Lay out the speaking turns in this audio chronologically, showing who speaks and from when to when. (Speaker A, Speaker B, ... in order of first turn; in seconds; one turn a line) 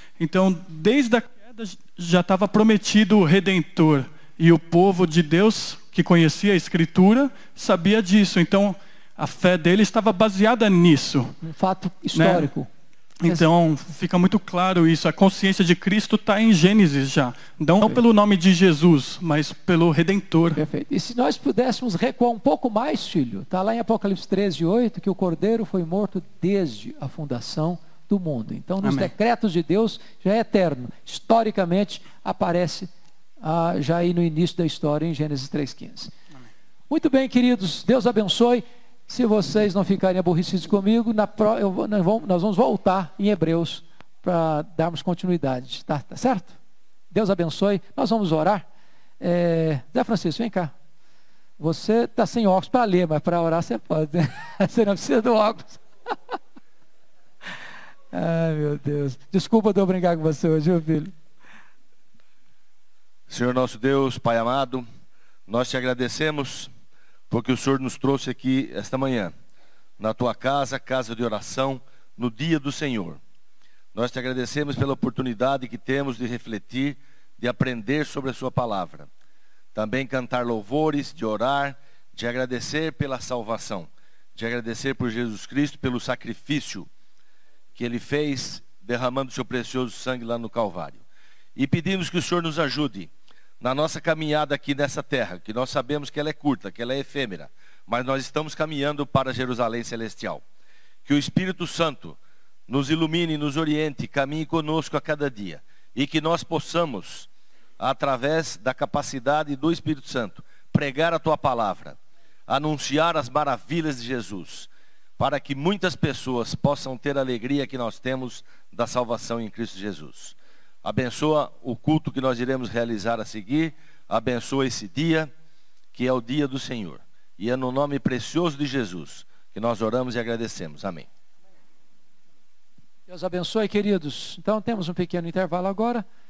Speaker A: 0.2-11.3
Speaker B: 11.4-12.7
Speaker A: 12.1-12.5
Speaker A: 13.2-20.6
Speaker B: 20.6-32.9
Speaker A: 28.8-29.1
Speaker B: 33.4-36.1
Speaker B: 36.9-46.6
Speaker B: 47.1-48.7
Speaker B: 49.2-50.7
Speaker B: 51.6-56.1
Speaker B: 58.1-61.1
Speaker C: 63.3-64.9
Speaker C: 65.5-66.7
Speaker C: 67.3-69.3
Speaker C: 70.0-73.2
Speaker C: 73.9-79.1
Speaker C: 79.8-86.9
Speaker C: 87.8-91.0
Speaker C: 91.6-100.4
Speaker C: 101.1-107.3
Speaker C: 107.8-125.3
Speaker C: 125.9-131.1
Speaker B: 133.1-136.1